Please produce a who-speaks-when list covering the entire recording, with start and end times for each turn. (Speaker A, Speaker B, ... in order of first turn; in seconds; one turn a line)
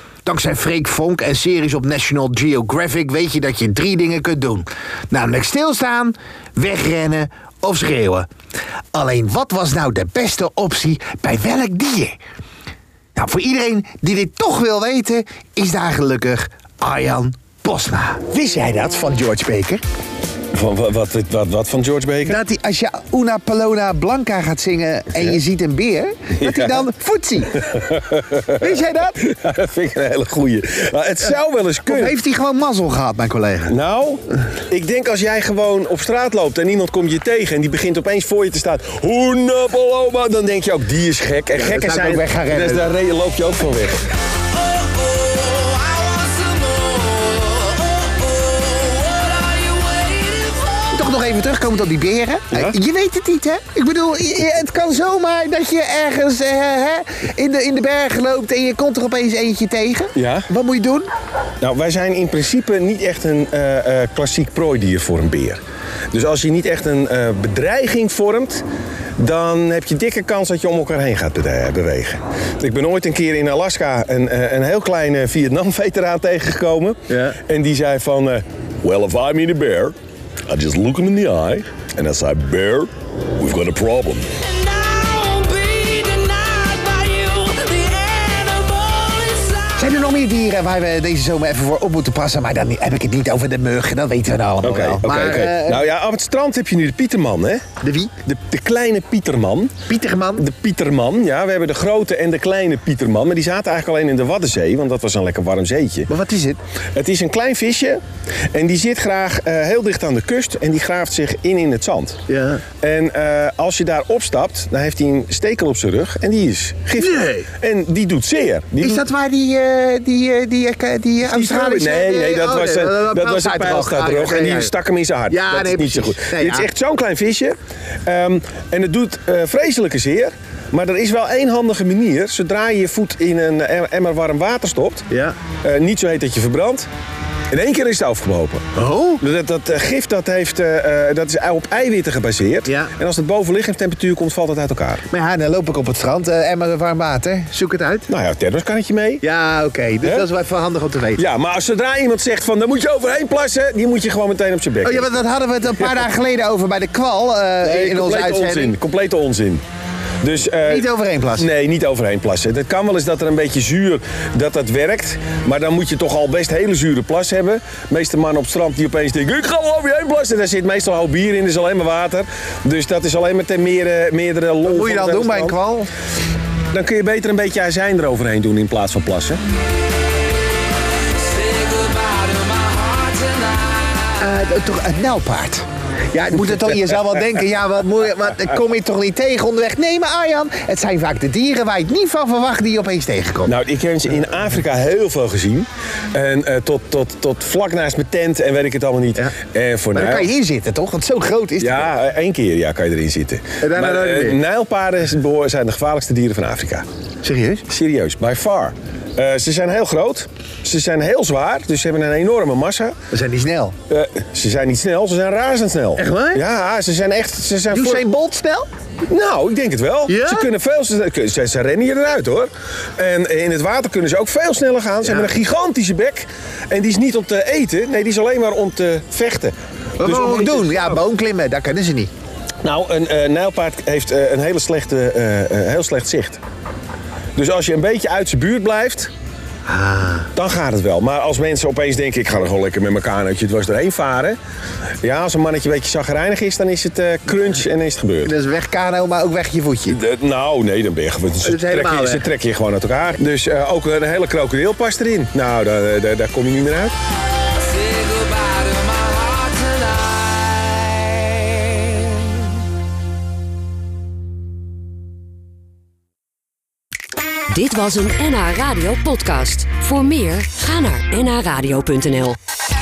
Speaker A: 0.2-8.3
Speaker A: 8.9-12.2
Speaker A: 13.2-19.8
Speaker B: 20.5-22.4
Speaker A: 22.2-27.6
Speaker B: 26.4-26.8
Speaker B: 27.6-32.1
Speaker A: 28.6-29.2
Speaker A: 31.9-33.8
Speaker B: 33.7-44.0
Speaker A: 41.5-42.9
Speaker C: 45.5-47.6
Speaker C: 48.7-49.3
Speaker C: 49.9-50.5
Speaker A: 50.9-61.1
Speaker B: 52.5-52.8
Speaker B: 60.1-60.5
Speaker B: 61.6-65.6
Speaker B: 66.1-68.6
Speaker B: 69.2-80.0
Speaker B: 80.5-84.3
Speaker C: 84.6-89.5
Speaker A: 89.8-95.8
Speaker B: 94.6-97.7
Speaker A: 97.8-98.1
Speaker B: 98.2-99.8
Speaker A: 99.9-100.4
Speaker B: 100.4-106.1
Speaker A: 106.1-106.6
Speaker B: 107.0-112.2
Speaker A: 112.3-112.6
Speaker B: 112.8-119.0
Speaker A: 117.0-117.5
Speaker A: 118.8-124.7
Speaker B: 121.2-135.1
Speaker A: 125.3-126.7
Speaker B: 135.6-136.9
Speaker B: 137.5-138.7
Speaker A: 138.8-139.2
Speaker B: 139.2-145.1
Speaker A: 142.7-142.9
Speaker A: 145.1-148.1
Speaker B: 148.1-149.2
Speaker A: 149.2-151.2
Speaker B: 150.0-150.3
Speaker B: 151.2-155.1
Speaker A: 154.8-158.8
Speaker B: 157.6-159.6
Speaker B: 160.2-175.6
Speaker A: 160.7-161.5
Speaker A: 174.6-175.9
Speaker B: 176.7-179.4
Speaker C: 181.5-183.2
Speaker A: 184.2-193.5
Speaker B: 193.5-200.3
Speaker A: 199.9-201.9
Speaker B: 201.6-206.8
Speaker A: 203.6-204.4
Speaker A: 207.2-207.6
Speaker B: 207.7-213.0
Speaker A: 213.1-213.7
Speaker B: 213.9-218.0
Speaker A: 216.0-216.4
Speaker A: 217.7-218.7
Speaker B: 219.1-231.0
Speaker A: 220.1-220.5
Speaker A: 230.0-232.1
Speaker B: 232.6-236.4
Speaker B: 237.4-239.1
Speaker A: 239.7-240.3
Speaker B: 240.3-244.4
Speaker B: 245.0-248.3
Speaker A: 248.2-250.0
Speaker B: 249.9-256.9
Speaker A: 251.4-252.3
Speaker C: 257.9-259.7
Speaker C: 267.5-272.4